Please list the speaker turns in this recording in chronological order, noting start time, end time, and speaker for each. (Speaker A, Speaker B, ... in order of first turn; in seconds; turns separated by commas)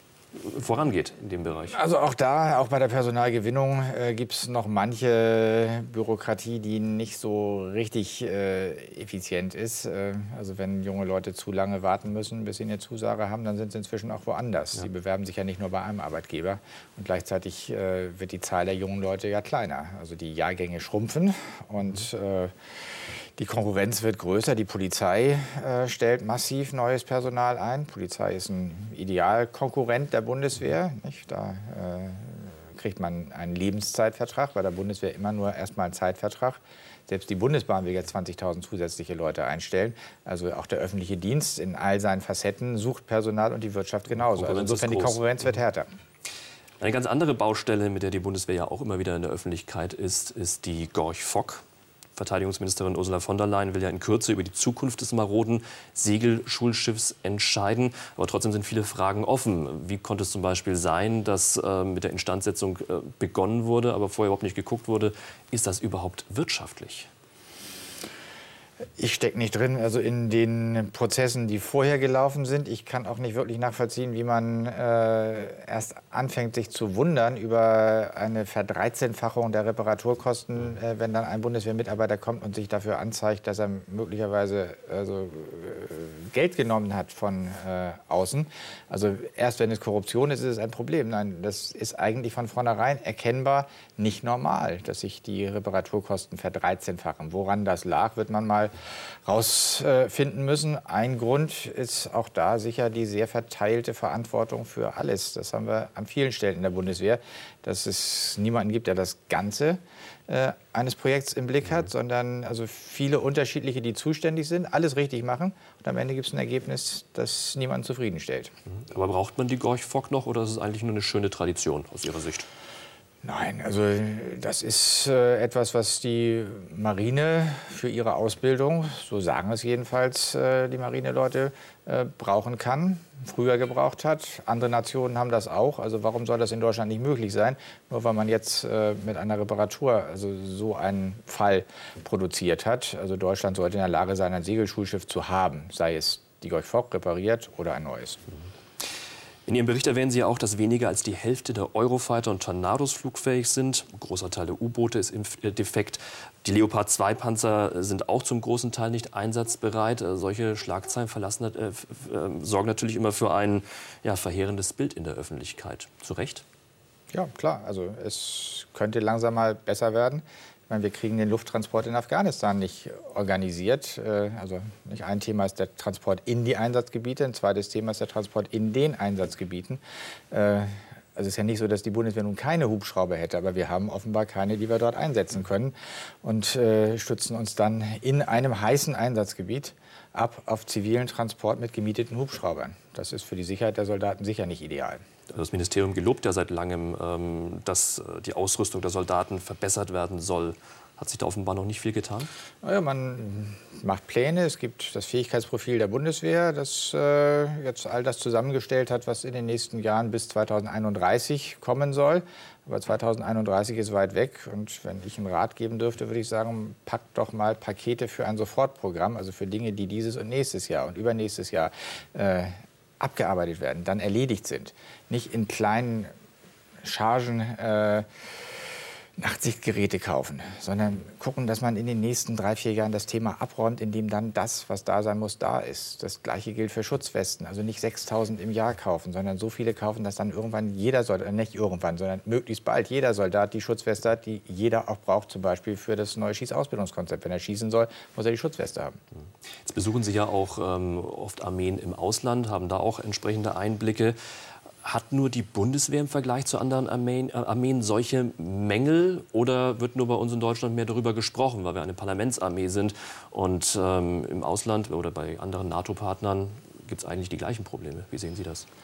Speaker A: 0.3-1.8, Speaker B: 1.7-45.9, Speaker A: 44.2-45.2, Speaker A: 46.8-51.6, Speaker A: 52.1-67.1, Speaker B: 69.0-118.5, Speaker A: 118.9-122.5, Speaker B: 123.2-148.2, Speaker A: 149.4-166.4, Speaker B: 167.1-195.0, Speaker A: 195.3-202.3, Speaker B: 202.6-226.1, Speaker B: 226.8-228.1, Speaker B: 229.2-249.0, Speaker A: 249.6-254.2, Speaker A: 254.8-268.7